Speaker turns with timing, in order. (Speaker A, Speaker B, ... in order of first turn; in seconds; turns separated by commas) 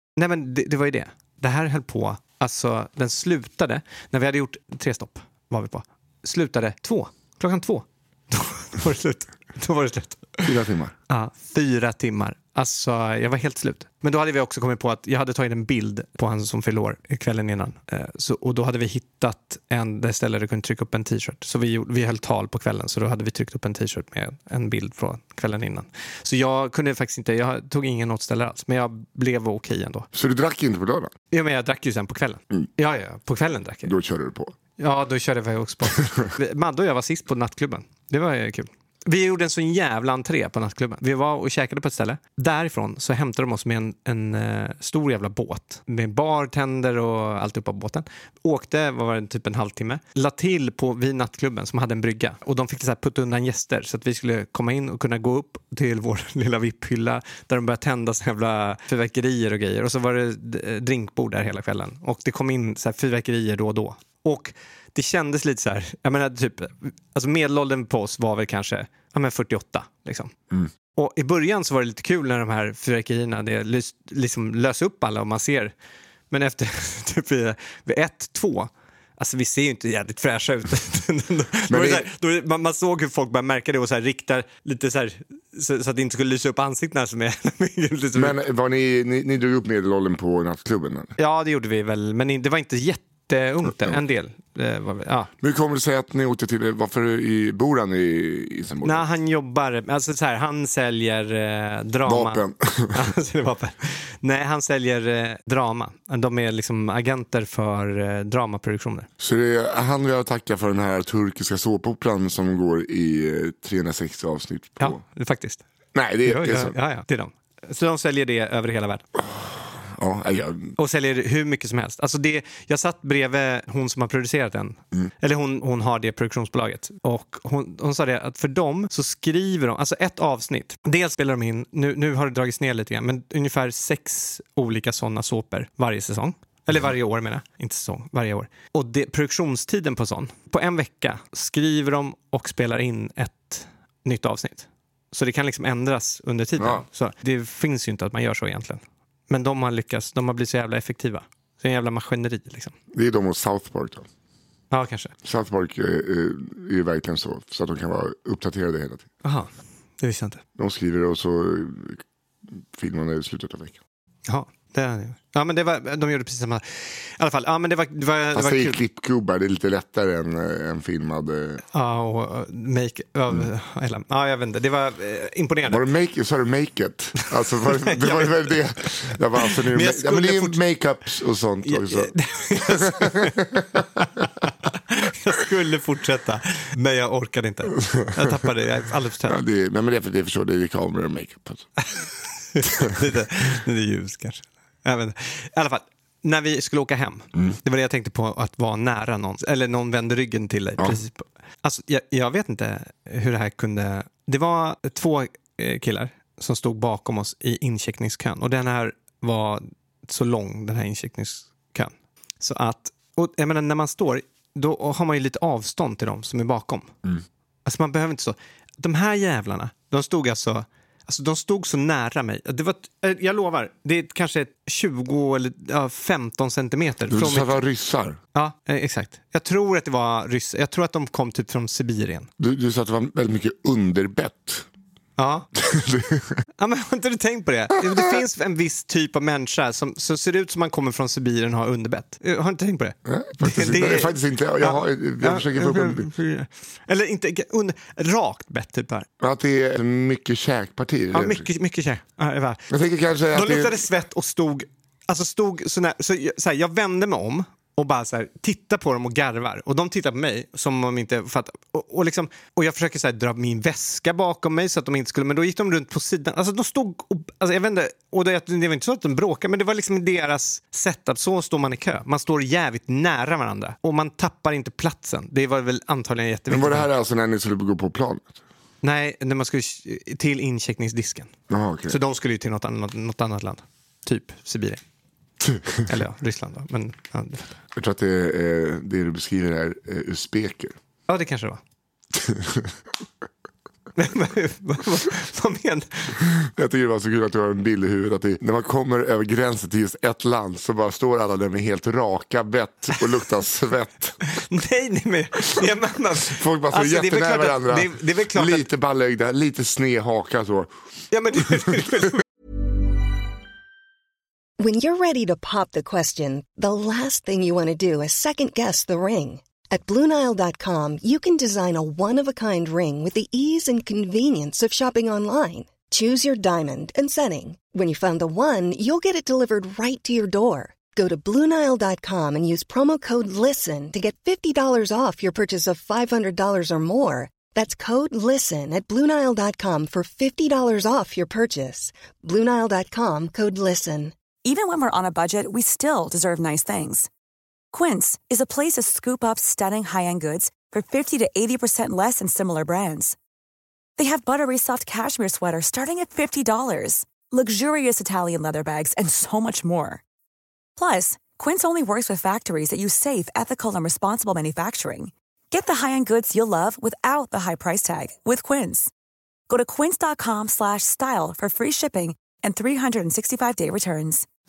Speaker A: 0.2-10.6, Speaker B: 10.4-10.9, Speaker A: 11.1-30.1, Speaker B: 30.1-31.1, Speaker A: 31.3-33.9, Speaker B: 33.8-34.5, Speaker A: 34.8-70.3, Speaker A: 71.0-75.7, Speaker A: 76.3-88.3, Speaker B: 81.7-82.1, Speaker B: 88.1-91.1, Speaker A: 91.2-95.3, Speaker B: 93.7-94.0, Speaker B: 95.4-99.0, Speaker A: 98.8-109.1, Speaker B: 102.0-103.1, Speaker B: 109.2-115.0, Speaker A: 114.8-115.6, Speaker B: 115.9-116.8, Speaker A: 116.2-119.0, Speaker B: 119.2-120.8, Speaker A: 120.8-152.7, Speaker B: 146.6-146.8, Speaker B: 152.9-154.1, Speaker A: 154.7-155.1, Speaker B: 155.2-159.1, Speaker A: 159.2-159.5, Speaker A: 160.0-160.4, Speaker B: 160.6-162.0, Speaker B: 162.5-163.8, Speaker A: 164.3-168.8, Speaker B: 168.3-171.6, Speaker A: 171.7-175.8, Speaker B: 175.7-183.8, Speaker A: 177.6-178.6, Speaker A: 179.4-180.6, Speaker A: 181.6-189.4, Speaker B: 187.9-188.3, Speaker B: 189.2-191.7, Speaker A: 191.8-216.9, Speaker A: 217.6-227.6, Speaker B: 227.1-228.2, Speaker A: 228.3-232.3, Speaker B: 232.4-234.7, Speaker A: 235.2-235.5, Speaker B: 235.6-236.4, Speaker A: 236.6-249.1, Speaker B: 237.8-238.1, Speaker B: 243.1-246.1, Speaker B: 249.2-251.4, Speaker A: 251.1-252.6, Speaker B: 252.7-253.8, Speaker A: 253.3-276.9, Speaker B: 276.5-278.4, Speaker A: 278.8-281.3, Speaker B: 281.5-282.0, Speaker A: 281.9-284.8, Speaker B: 285.4-285.9, Speaker A: 285.9-287.5, Speaker B: 287.8-290.8, Speaker A: 291.1-291.6, Speaker B: 292.1-292.7, Speaker A: 293.9-296.2, Speaker B: 296.3-304.2, Speaker A: 304.3-308.7, Speaker B: 306.2-310.7, Speaker A: 311.1-312.2, Speaker B: 311.4-311.7, Speaker C: 314.6-344.1, Speaker D: 344.4-347.1, Speaker D: 347.7-353.1, Speaker D: 354.0-360.0, Speaker D: 360.8-368.9, Speaker D: 369.5-374.2